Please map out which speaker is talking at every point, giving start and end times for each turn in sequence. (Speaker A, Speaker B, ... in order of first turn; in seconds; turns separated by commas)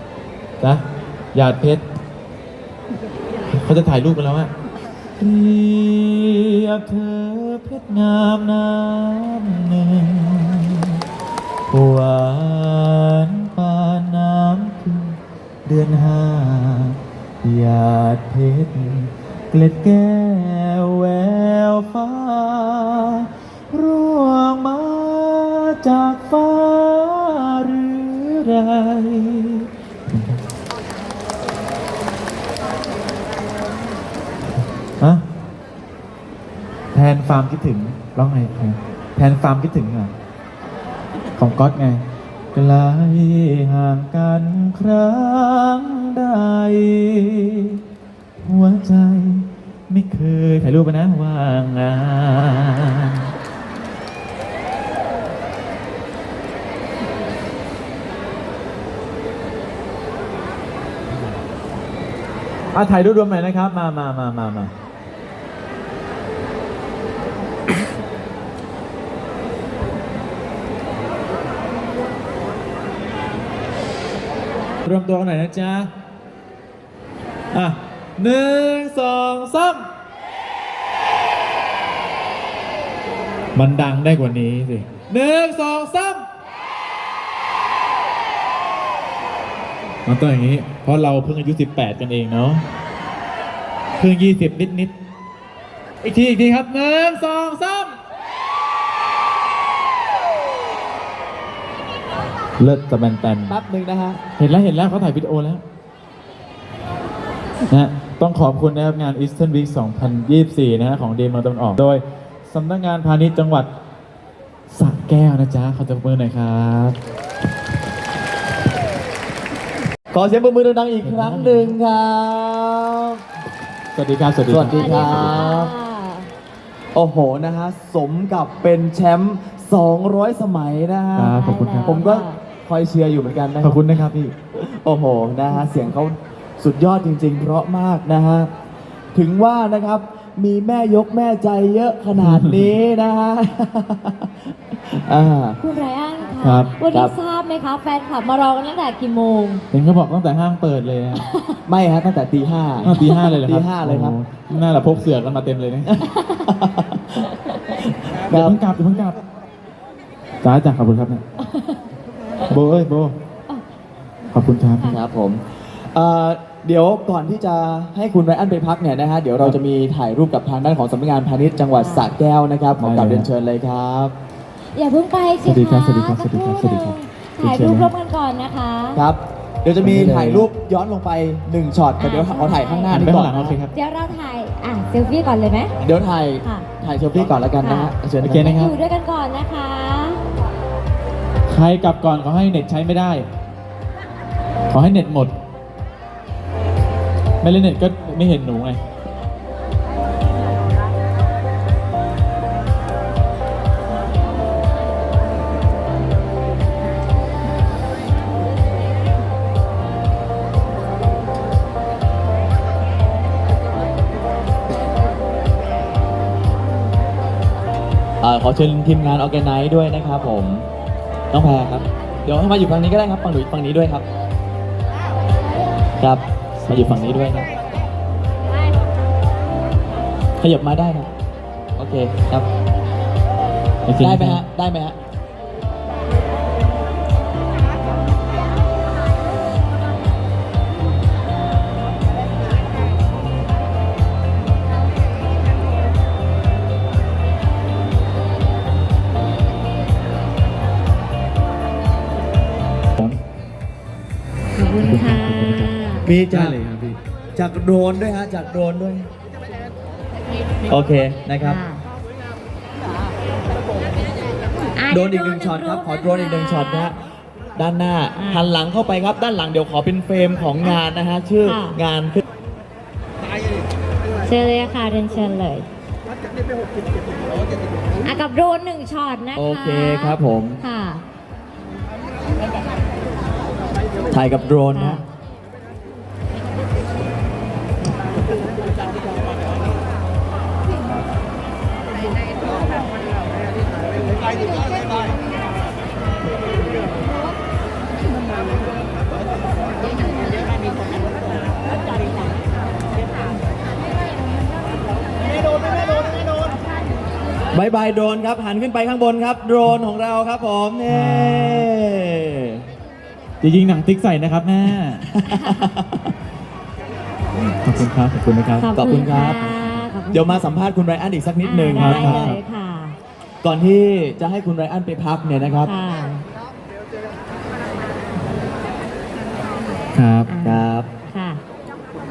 Speaker A: 1.3-1.8, Speaker A: 3.5-4.5, Speaker A: 5.2-10.9, Speaker A: 11.7-30.4, Speaker A: 36.9-40.1, Speaker A: 41.4-42.0, Speaker A: 42.5-47.8, Speaker A: 48.4-53.3, Speaker A: 62.7-64.7, Speaker A: 74.8-75.9, Speaker A: 77.5-79.8, Speaker A: 83.5-86.2, Speaker A: 90.0-92.6, Speaker A: 94.0-94.9, Speaker A: 96.0-98.0, Speaker A: 102.6-103.6, Speaker B: 103.5-104.2, Speaker A: 104.4-105.6, Speaker A: 107.7-113.7, Speaker A: 114.7-117.0, Speaker B: 120.1-123.2, Speaker A: 121.0-121.8, Speaker A: 123.9-125.4, Speaker B: 124.5-125.7, Speaker C: 124.7-126.3, Speaker B: 126.9-138.5, Speaker A: 131.2-132.1, Speaker C: 131.4-132.4, Speaker A: 133.6-134.3, Speaker B: 139.1-145.6, Speaker A: 142.2-142.7, Speaker C: 145.6-149.6, Speaker A: 146.4-146.7, Speaker A: 149.7-151.2, Speaker C: 151.2-151.6, Speaker B: 151.7-154.1, Speaker A: 152.8-155.9, Speaker C: 153.0-153.3, Speaker B: 155.9-158.6, Speaker C: 156.2-156.5, Speaker A: 158.3-159.2, Speaker A: 160.4-161.2, Speaker C: 161.4-161.8, Speaker A: 162.5-163.1, Speaker A: 164.3-164.9, Speaker B: 164.8-174.1, Speaker C: 171.8-172.1, Speaker A: 172.8-173.3, Speaker C: 174.7-179.0, Speaker A: 175.4-177.9, Speaker B: 178.9-183.6, Speaker A: 179.8-180.5, Speaker C: 182.0-183.1, Speaker A: 182.9-183.7, Speaker C: 183.7-185.7, Speaker B: 185.8-188.6, Speaker C: 186.4-186.7, Speaker C: 187.6-190.2, Speaker A: 188.2-188.7, Speaker A: 191.5-193.2, Speaker A: 194.7-195.3, Speaker A: 197.4-198.8, Speaker B: 218.2-220.7, Speaker B: 221.3-224.0, Speaker B: 226.0-227.5, Speaker A: 226.6-227.3, Speaker B: 230.4-231.1, Speaker B: 231.8-232.5, Speaker A: 233.8-234.4, Speaker B: 234.0-235.0, Speaker C: 254.5-256.1, Speaker A: 254.8-257.0, Speaker B: 256.0-256.6, Speaker B: 257.3-259.1, Speaker B: 260.7-261.6, Speaker C: 261.4-261.8, Speaker C: 264.8-266.9, Speaker B: 264.9-266.9, Speaker B: 267.6-272.2, Speaker C: 268.2-268.4, Speaker C: 271.4-271.8, Speaker C: 274.2-275.7, Speaker C: 278.0-281.0, Speaker B: 279.3-280.6, Speaker B: 284.1-285.0, Speaker C: 284.7-285.0, Speaker B: 307.5-312.6, Speaker A: 310.9-311.7, Speaker A: 313.4-315.1, Speaker B: 315.0-316.1, Speaker C: 315.2-315.7, Speaker A: 317.6-318.7, Speaker C: 318.6-320.5, Speaker B: 318.7-322.4, Speaker C: 321.4-322.9, Speaker A: 321.7-322.4, Speaker B: 323.4-325.7, Speaker C: 325.6-326.2, Speaker A: 329.9-330.3, Speaker C: 330.3-331.4, Speaker B: 330.4-330.9